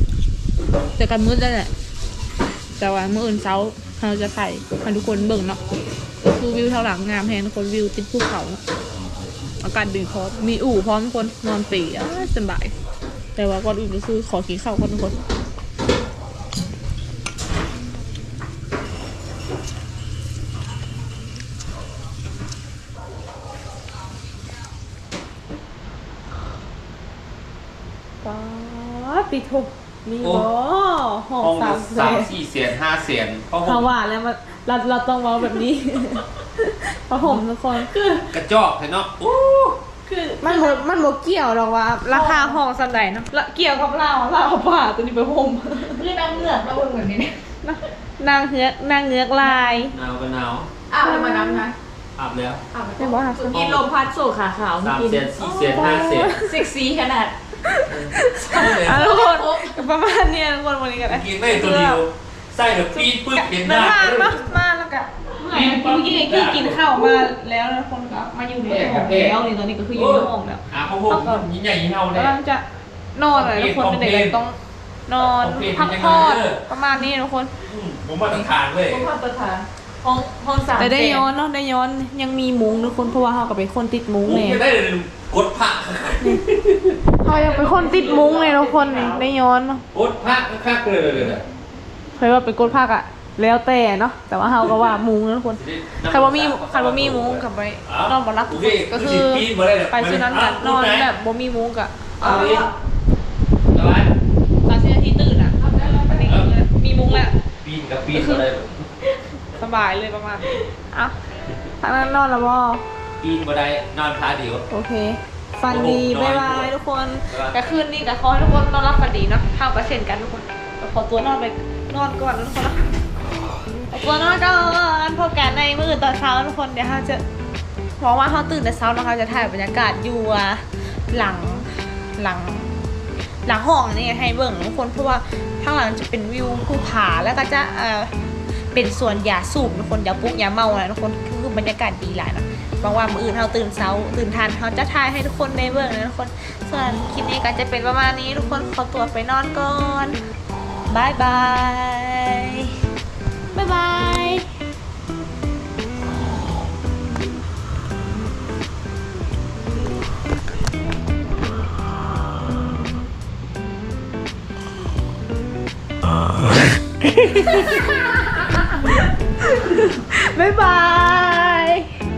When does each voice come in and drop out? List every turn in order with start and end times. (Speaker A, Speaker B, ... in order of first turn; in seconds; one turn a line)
Speaker A: 1.0-1.7
Speaker A: 2.8-5.6
Speaker A: 6.2-8.6
Speaker A: 9.6-12.7
Speaker A: 13.3-15.2
Speaker A: 28.2-32.3
Speaker B: 30.2-30.5
Speaker B: 31.4-33.9
Speaker A: 33.6-37.9
Speaker C: 37.8-38.3
Speaker B: 38.3-39.8
Speaker C: 40.1-40.9
Speaker A: 40.4-46.1
Speaker C: 42.1-42.6
Speaker C: 45.8-47.4
Speaker A: 47.6-50.0
Speaker C: 49.4-49.9
Speaker B: 49.9-50.7
Speaker C: 50.9-51.8
Speaker A: 51.0-51.7
Speaker B: 52.2-52.6
Speaker C: 52.7-57.4
Speaker A: 53.0-53.6
Speaker B: 53.5-53.9
Speaker B: 54.8-56.4
Speaker A: 55.5-56.6
Speaker A: 57.6-62.0
Speaker B: 57.9-59.2
Speaker C: 58.2-59.9
Speaker B: 61.0-64.4
Speaker A: 62.9-71.5
Speaker B: 65.5-67.2
Speaker B: 68.7-72.4
Speaker A: 72.1-77.5
Speaker B: 73.3-74.4
Speaker B: 75.2-76.6
Speaker B: 77.6-79.1
Speaker C: 78.9-81.3
Speaker A: 80.7-84.6
Speaker B: 84.2-87.0
Speaker A: 87.2-89.8
Speaker C: 87.2-89.2
Speaker B: 89.9-91.5
Speaker A: 92.2-102.7
Speaker B: 95.6-101.1
Speaker B: 102.2-102.7
Speaker C: 102.2-102.7
Speaker B: 103.7-104.1
Speaker A: 104.6-107.4
Speaker C: 105.6-106.4
Speaker B: 106.1-106.5
Speaker B: 107.1-108.8
Speaker A: 108.1-108.5
Speaker A: 109.0-111.2
Speaker A: 111.8-112.8
Speaker B: 113.2-114.6
Speaker A: 114.7-122.9
Speaker B: 115.7-116.8
Speaker B: 117.3-117.6
Speaker A: 123.9-127.2
Speaker A: 128.0-132.8
Speaker A: 133.4-138.1
Speaker A: 138.7-150.2
Speaker A: 150.9-152.7
Speaker A: 153.5-154.5
Speaker A: 167.1-171.9